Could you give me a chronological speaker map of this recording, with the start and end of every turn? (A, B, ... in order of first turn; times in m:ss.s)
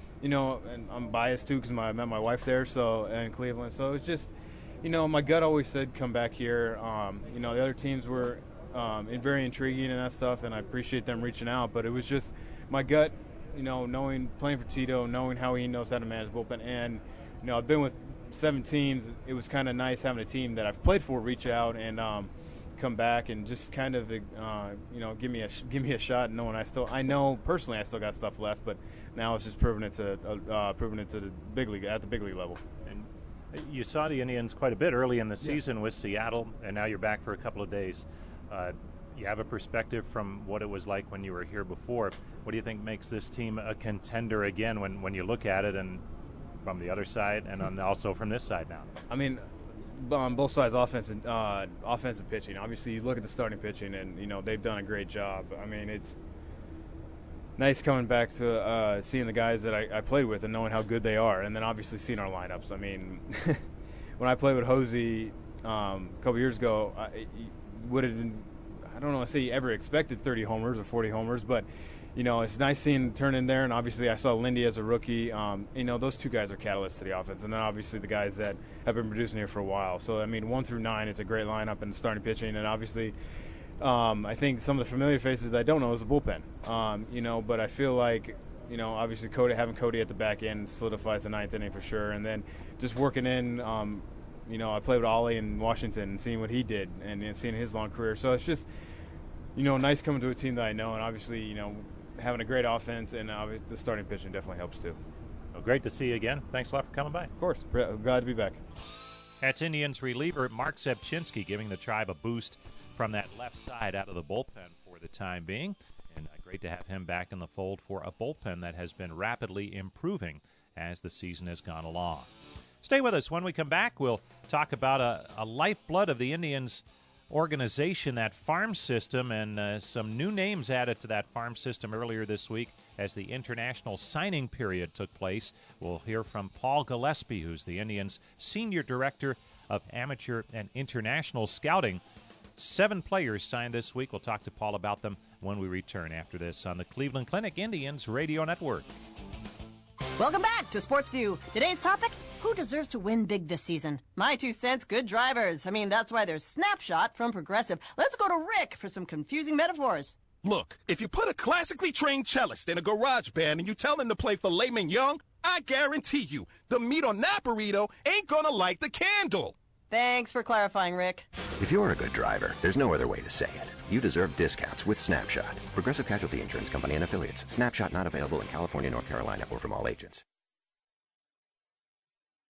0:00.2-0:32.6 A
0:32.9-0:46.0 B
0:46.6-0:49.0 B
0:49.1-0:56.2 A
0:57.6-1:03.6 A
1:04.2-1:23.2 A
1:23.8-1:38.7 A
1:39.6-1:45.0 A
1:45.5-1:47.3 B
1:47.4-1:48.6 A
1:49.4-2:02.3 B
2:02.8-2:22.0 B
2:22.6-2:28.9 B
2:30.2-2:40.2 C
2:40.4-2:49.6 D
2:49.9-2:51.2 C
2:51.6-3:00.2 E